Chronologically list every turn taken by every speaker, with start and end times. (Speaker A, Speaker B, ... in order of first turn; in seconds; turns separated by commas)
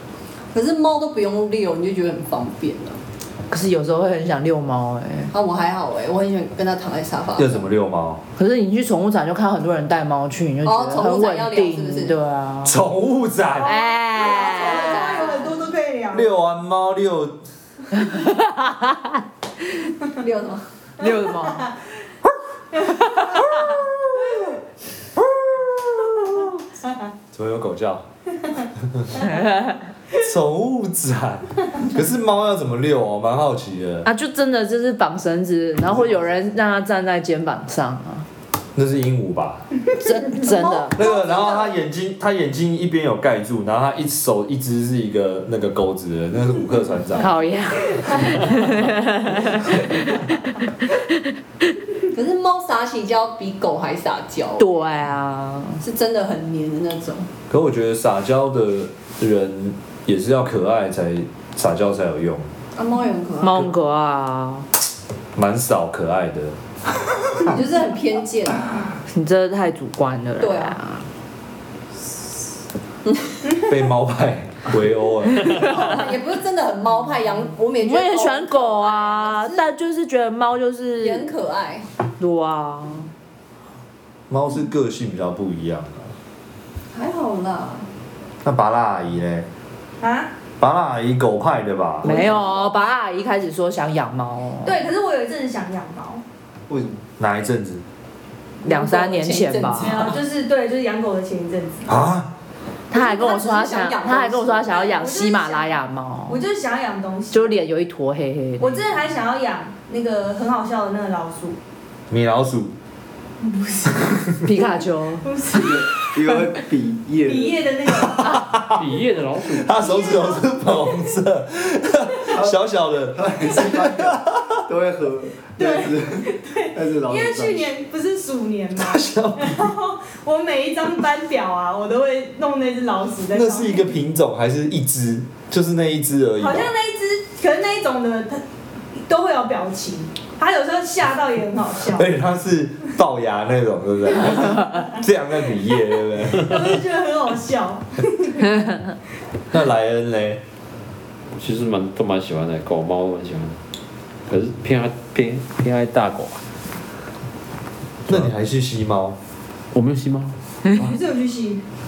Speaker A: 0.5-3.0, Speaker B: 3.5-5.3, Speaker A: 5.3-7.7, Speaker C: 7.4-8.2, Speaker B: 8.4-12.8, Speaker A: 10.6-12.2, Speaker C: 12.6-13.8, Speaker B: 13.6-15.3, Speaker D: 14.2-16.3, Speaker A: 14.2-15.7, Speaker C: 16.1-17.4, Speaker B: 17.9-19.1, Speaker A: 20.2-20.6, Speaker B: 21.0-21.7, Speaker D: 21.0-21.8, Speaker D: 22.8-23.2, Speaker C: 23.5-24.3, Speaker C: 25.2-26.5, Speaker C: 27.3-28.0, Speaker C: 28.9-29.2, Speaker B: 29.3-29.8, Speaker C: 30.1-34.1, Speaker B: 34.0-38.3, Speaker C: 36.0-36.2, Speaker C: 38.8-39.6, Speaker B: 40.0-41.0, Speaker A: 40.5-41.1, Speaker C: 41.0-47.3, Speaker D: 41.4-41.7, Speaker B: 47.2-50.3, Speaker A: 52.1-54.7, Speaker B: 54.6-55.8, Speaker A: 55.8-57.3, Speaker C: 57.5-62.5, Speaker A: 62.8-63.7, Speaker B: 63.4-64.7, Speaker C: 65.3-66.5, Speaker A: 67.4-68.7, Speaker B: 69.1-71.0, Speaker A: 70.4-70.8, Speaker A: 73.1-73.3, Speaker C: 73.6-75.7, Speaker A: 75.4-79.7, Speaker B: 75.5-75.8, Speaker B: 77.8-81.3, Speaker A: 81.0-81.9, Speaker B: 82.2-83.1, Speaker C: 84.3-86.1, Speaker A: 86.9-87.9, Speaker C: 88.4-89.5, Speaker D: 90.0-90.3, Speaker C: 90.6-92.2, Speaker B: 92.0-94.8, Speaker D: 94.6-96.2, Speaker E: 96.7-97.0, Speaker C: 97.2-97.8, Speaker A: 98.6-100.2, Speaker B: 98.7-100.1, Speaker D: 99.8-102.0, Speaker C: 101.9-102.3, Speaker B: 102.9-106.4, Speaker A: 102.9-104.8, Speaker D: 104.7-105.8, Speaker D: 106.3-107.6, Speaker B: 107.3-108.8, Speaker D: 108.6-111.6, Speaker C: 112.1-112.7, Speaker D: 113.4-114.2, Speaker B: 114.4-115.3, Speaker D: 115.2-115.8, Speaker E: 115.5-117.8, Speaker D: 117.3-118.4, Speaker C: 118.0-124.6, Speaker F: 118.8-119.7, Speaker D: 119.8-120.9, Speaker E: 122.3-122.6, Speaker E: 123.1-127.7, Speaker D: 125.6-133.9, Speaker C: 128.8-129.6, Speaker C: 133.3-136.7, Speaker D: 136.4-138.4, Speaker D: 138.9-142.1, Speaker C: 141.9-146.7, Speaker D: 146.3-148.6, Speaker C: 149.5-150.4, Speaker F: 151.3-153.6, Speaker F: 154.3-156.4, Speaker C: 158.1-159.2, Speaker F: 159.7-160.4, Speaker D: 160.8-161.6